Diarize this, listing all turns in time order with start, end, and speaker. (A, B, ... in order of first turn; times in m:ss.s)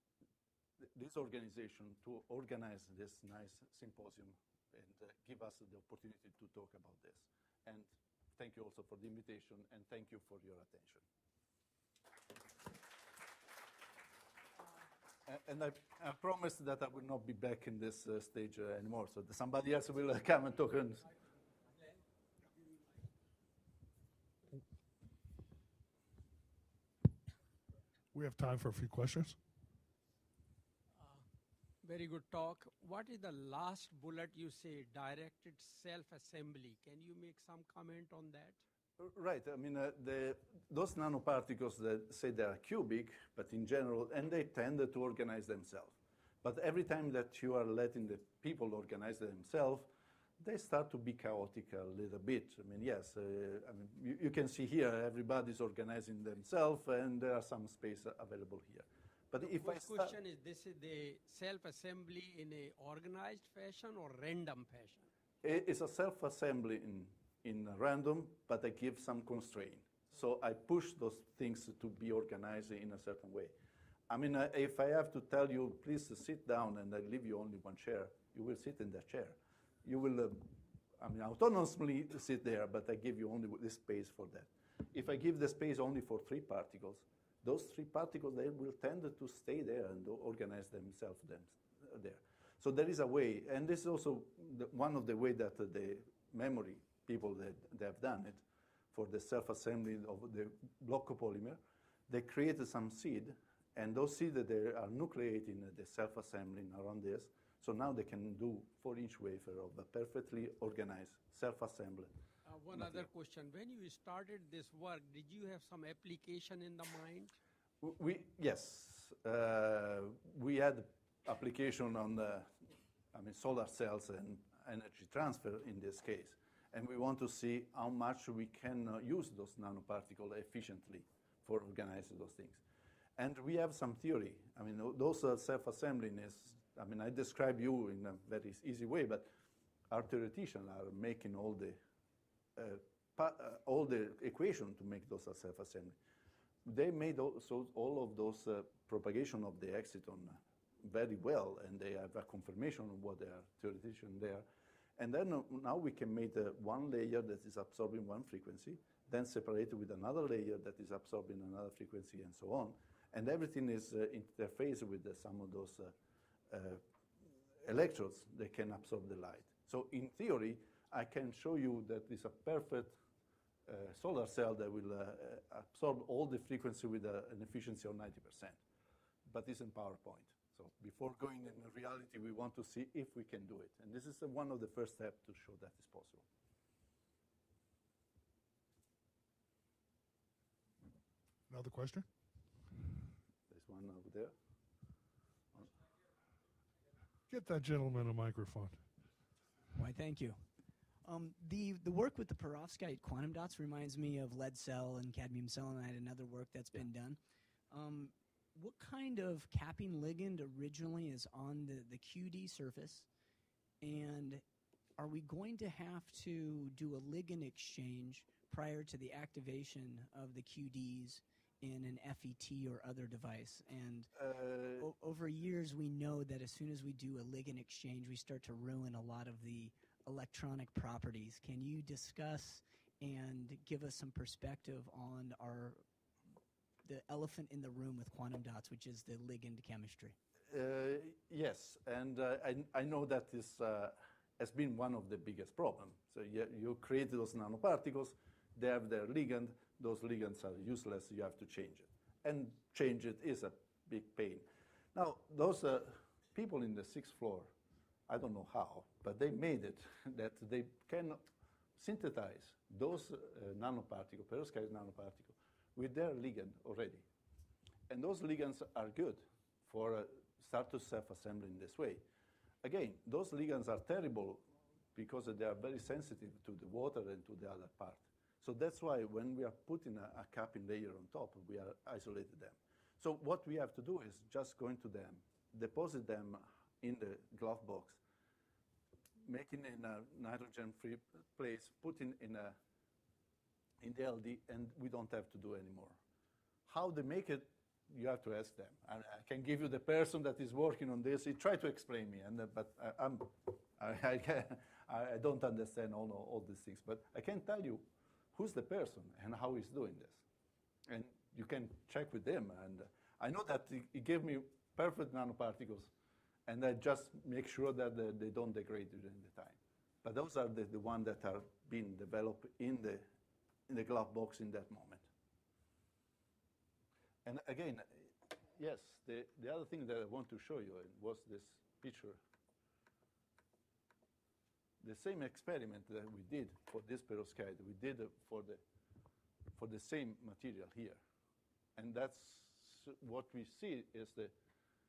0:00.8-0:11.0 A
0:15.2-0:21.1 A
0:28.1-0:29.4 B
0:31.0-0:31.2 C
0:31.8-0:38.6 C
0:39.0-0:49.9 A
0:50.4-1:00.2 A
0:59.4-1:05.0 C
1:05.4-1:13.5 A
1:14.1-1:52.1 A
1:52.5-1:57.4 C
1:52.7-1:53.1 A
1:57.8-2:12.6 A
2:13.2-2:19.3 A
2:19.9-2:21.8 A
2:22.6-2:26.0 A
2:26.6-2:34.5 A
2:35.0-2:45.9 A
2:46.5-2:46.8 A
2:47.6-2:53.0 A
2:53.7-2:58.6 A
2:59.3-3:06.2 A
3:11.5-3:12.1 B
3:13.5-3:14.3 A
3:17.3-3:18.8 B
3:19.8-3:20.4 D
3:21.0-3:27.2 D
3:27.7-3:33.1 D
3:33.8-3:34.4 D
3:35.0-3:44.1 D
3:44.2-3:44.9 A
3:44.8-3:55.8 D
3:56.8-4:00.2 D
4:00.5-4:17.5 A
4:18.1-4:21.2 A
4:21.8-4:27.1 A
4:27.9-4:32.0 A
4:32.6-4:48.0 A
4:49.2-4:52.6 A
4:53.8-4:56.0 A
4:56.7-5:10.2 A
5:10.9-5:15.9 A
5:16.5-5:23.1 A
5:23.7-5:25.1 A
5:27.2-5:32.2 A
5:34.8-5:38.6 A
5:39.6-5:41.0 A
5:41.8-5:44.3 A